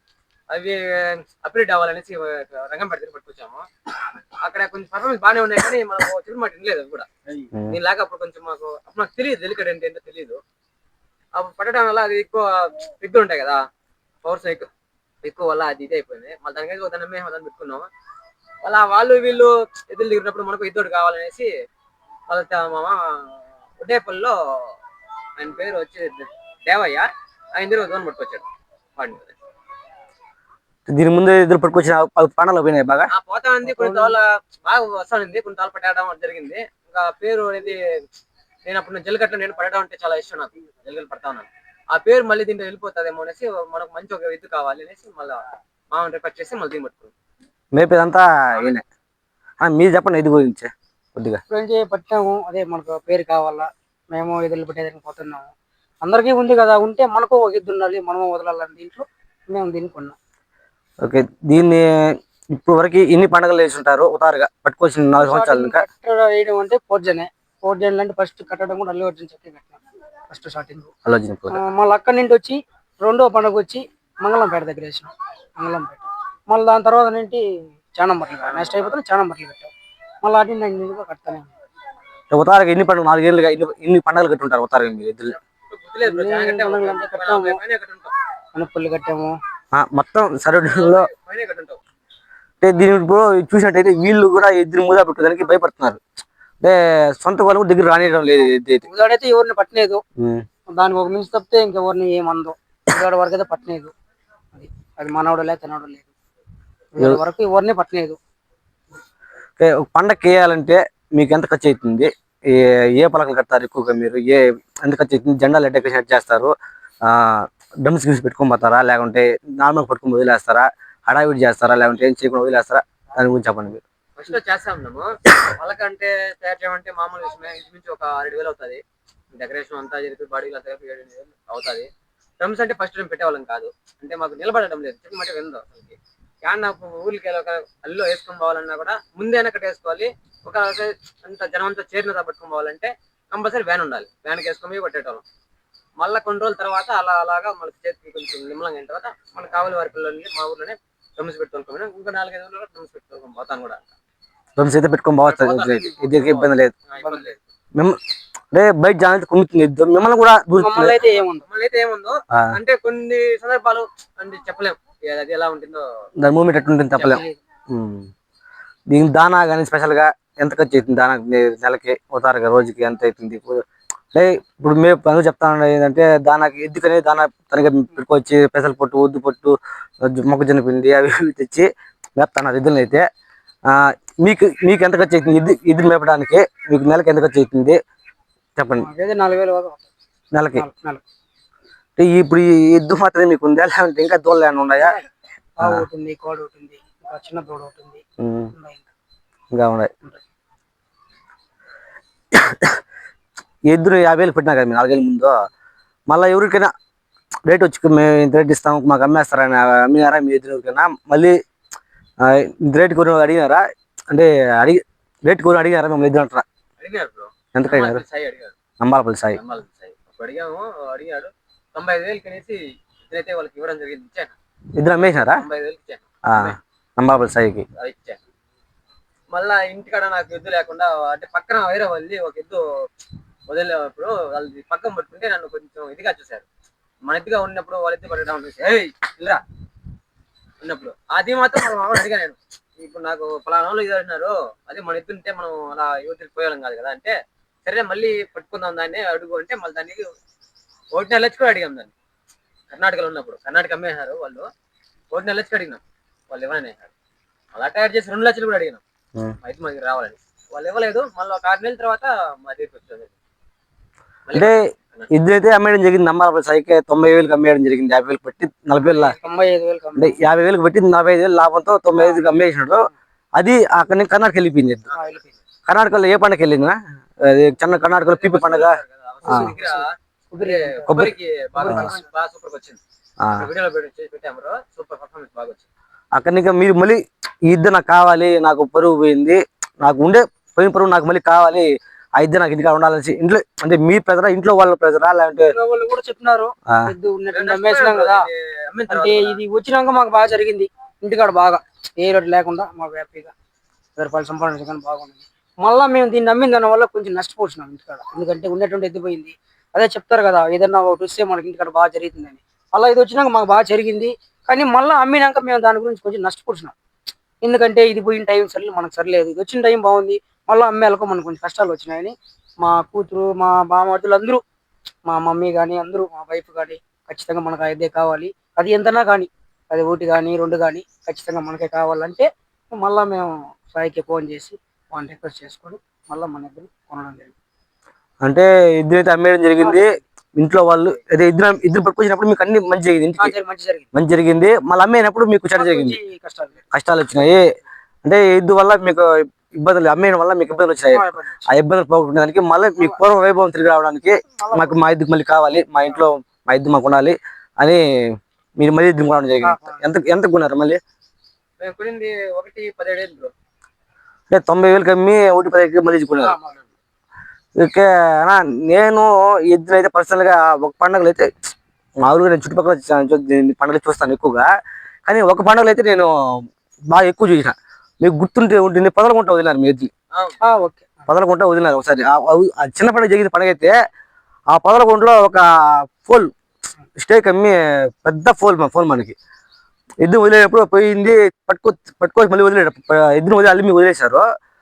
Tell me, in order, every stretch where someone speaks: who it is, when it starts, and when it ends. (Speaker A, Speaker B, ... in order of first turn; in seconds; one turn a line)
Speaker A: 0.5-3.7
Speaker A: 4.4-7.1
Speaker A: 7.6-10.4
Speaker A: 11.3-13.7
Speaker A: 14.2-14.7
Speaker A: 15.2-17.9
Speaker A: 18.6-21.5
Speaker A: 22.3-24.7
Speaker A: 25.4-28.5
Speaker A: 29.0-29.3
Speaker B: 30.9-33.1
Speaker A: 33.1-37.8
Speaker A: 38.7-47.1
Speaker B: 47.7-48.8
Speaker B: 49.6-51.4
Speaker C: 51.5-55.5
Speaker C: 56.0-60.2
Speaker B: 61.0-65.8
Speaker C: 65.2-70.9
Speaker B: 71.1-71.6
Speaker C: 71.5-79.7
Speaker A: 78.4-79.0
Speaker C: 80.2-81.5
Speaker B: 82.3-85.3
Speaker A: 85.7-88.1
Speaker C: 86.0-87.6
Speaker C: 88.5-89.4
Speaker B: 89.7-91.1
Speaker A: 90.6-91.8
Speaker B: 92.6-96.0
Speaker B: 96.6-98.9
Speaker C: 98.9-100.0
Speaker B: 100.2-100.5
Speaker C: 100.7-103.9
Speaker C: 104.5-106.1
Speaker C: 106.9-108.2
Speaker B: 109.6-123.8
Speaker A: 124.2-128.8
Speaker A: 129.3-131.9
Speaker A: 132.4-145.2
Speaker A: 146.0-153.8
Speaker B: 154.6-156.7
Speaker A: 155.2-157.4
Speaker C: 157.0-157.3
Speaker B: 158.5-160.9
Speaker C: 160.6-161.4
Speaker A: 161.0-166.1
Speaker B: 166.2-168.1
Speaker C: 167.0-167.4
Speaker B: 168.9-183.1
Speaker B: 183.7-187.8
Speaker B: 188.6-188.9
Speaker C: 188.8-189.8
Speaker B: 190.3-190.7
Speaker C: 190.6-191.0
Speaker B: 192.0-194.9
Speaker C: 195.6-198.0
Speaker B: 195.6-195.9
Speaker B: 198.2-198.5
Speaker C: 198.5-198.9
Speaker B: 199.5-199.9
Speaker B: 202.3-202.8
Speaker B: 203.7-205.3
Speaker B: 206.1-206.7
Speaker B: 207.5-211.4
Speaker B: 212.2-216.4
Speaker A: 216.8-218.6
Speaker B: 217.5-218.0
Speaker B: 218.8-219.4
Speaker A: 219.3-224.4
Speaker B: 224.8-225.4
Speaker A: 225.0-226.6
Speaker B: 226.3-227.7
Speaker A: 227.8-228.2
Speaker A: 229.3-232.6
Speaker A: 233.5-236.4
Speaker A: 237.1-239.4
Speaker A: 240.6-250.1
Speaker A: 250.9-251.9
Speaker A: 252.7-254.5
Speaker A: 255.1-256.9
Speaker A: 257.5-258.8
Speaker A: 259.4-263.1
Speaker A: 264.3-265.1
Speaker B: 264.3-269.2
Speaker C: 268.9-270.2
Speaker B: 270.0-274.9
Speaker C: 272.0-272.2
Speaker A: 274.9-275.2
Speaker C: 274.9-275.3
Speaker B: 275.7-279.5
Speaker A: 278.0-279.9
Speaker C: 279.2-282.0
Speaker A: 280.4-282.8
Speaker B: 280.9-281.1
Speaker B: 283.2-283.5
Speaker A: 283.4-285.7
Speaker B: 286.1-295.6
Speaker C: 295.5-298.3
Speaker B: 296.7-296.9
Speaker A: 297.3-299.4
Speaker C: 298.9-303.3
Speaker C: 304.0-316.7
Speaker C: 317.4-324.4
Speaker C: 325.1-337.3
Speaker B: 338.2-343.4
Speaker C: 339.6-340.0
Speaker C: 343.2-343.9
Speaker B: 343.9-346.0
Speaker C: 345.6-346.6
Speaker B: 346.7-347.4
Speaker B: 348.0-360.8
Speaker C: 350.9-351.5
Speaker C: 354.4-354.8
Speaker C: 359.4-359.8
Speaker A: 361.6-363.3
Speaker B: 364.3-366.4
Speaker A: 366.2-366.6
Speaker B: 367.6-371.3
Speaker B: 372.0-374.5
Speaker B: 375.1-379.9
Speaker A: 380.1-380.4
Speaker C: 380.4-381.1
Speaker B: 381.1-383.7
Speaker B: 384.5-386.3
Speaker B: 387.0-389.1
Speaker B: 390.0-394.2